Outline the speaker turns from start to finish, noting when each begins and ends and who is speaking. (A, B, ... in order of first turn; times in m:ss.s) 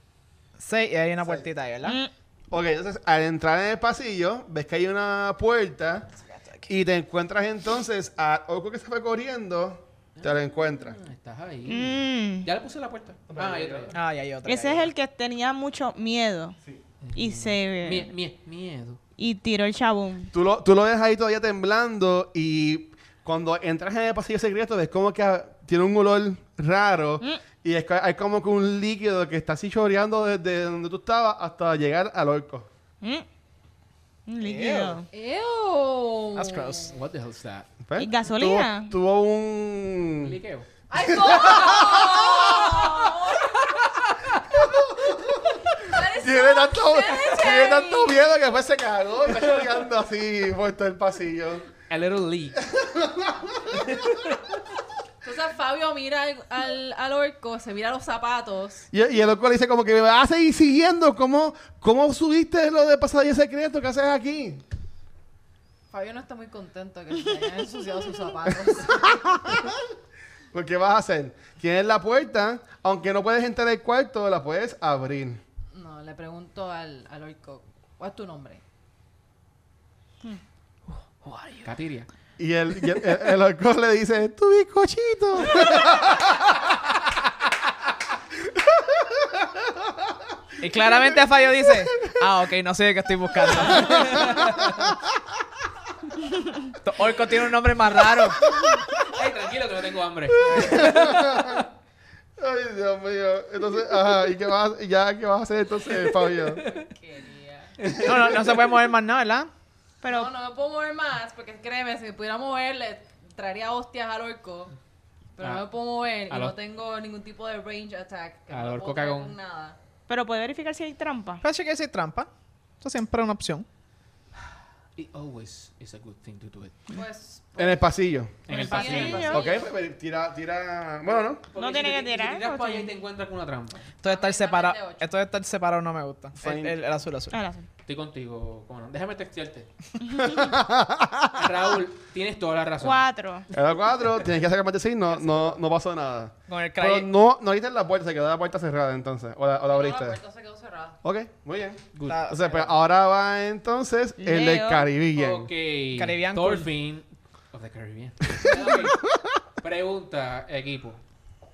0:00.6-0:02.0 A
0:01.8-0:02.1 B
0:02.5-0:06.1 C
0:06.2-0:06.7 A
0:06.7-0:11.0 C
0:10.2-0:13.9 D
0:11.7-0:12.5 B
0:13.3-0:13.9 C
0:13.9-0:14.9 A
0:14.5-0:16.6 B
0:17.0-0:19.0 D
0:17.2-0:18.1 B
0:19.2-0:20.3 B
0:20.3-0:32.7 C
0:34.3-0:35.1 B
0:34.4-0:35.0 A
0:35.1-0:37.0 E
0:36.4-0:36.9 A
0:36.9-0:37.7 D
0:37.8-0:40.4 C
0:38.0-0:38.9 B
0:40.2-0:40.7 D
0:40.9-0:43.8 E
0:41.0-0:42.9 C
0:43.8-0:44.4 D
0:44.6-0:51.7 C
0:45.8-0:48.2 E
0:51.9-0:52.6 D
0:52.6-0:53.9 C
0:53.8-0:54.4 D
0:55.2-0:58.9 E
0:58.9-1:04.6 C
1:05.9-1:09.4 E
1:09.0-1:09.8 C
1:10.5-1:15.4 C
1:15.7-1:18.6 E
1:21.2-1:22.1 D
1:22.4-1:26.6 C
1:28.5-1:30.1 C
1:30.6-1:34.4 A
1:33.6-1:34.9 C
1:33.8-1:34.8 D
1:36.8-1:38.5 A
1:38.9-1:41.6 D
1:40.4-1:41.6 C
1:42.4-1:46.6 C
1:46.4-1:46.8 D
1:46.6-1:47.7 E
1:47.8-1:48.5 D
1:48.0-1:49.5 A
1:50.0-1:50.3 B
1:50.1-1:54.8 E
1:55.4-1:59.8 E
1:55.4-1:55.7 D
1:56.3-1:56.6 D
1:58.5-1:59.4 D
2:00.1-2:01.4 B
2:01.4-2:02.3 A
2:02.8-2:03.7 A
2:05.0-2:06.8 D
2:06.9-2:07.9 E
2:07.6-2:08.4 C
2:08.5-2:09.5 D
2:08.5-2:09.5 B
2:08.5-2:09.6 E
2:09.2-2:11.4 C
2:11.5-2:13.9 D
2:11.6-2:12.9 B
2:14.0-2:17.4 A
2:14.0-2:15.2 E
2:16.4-2:16.8 C
2:17.3-2:17.7 B
2:17.9-2:19.7 D
2:20.2-2:21.5 C
2:21.3-2:23.1 D
2:22.8-2:23.5 B
2:23.5-2:30.2 C
2:25.2-2:25.5 A
2:26.5-2:27.1 A
2:29.7-2:31.0 E
2:31.0-2:35.5 C
2:32.0-2:32.2 D
2:32.0-2:32.7 A
2:34.2-2:34.9 B
2:35.1-2:39.0 D
2:36.0-2:36.7 A
2:39.6-2:41.0 D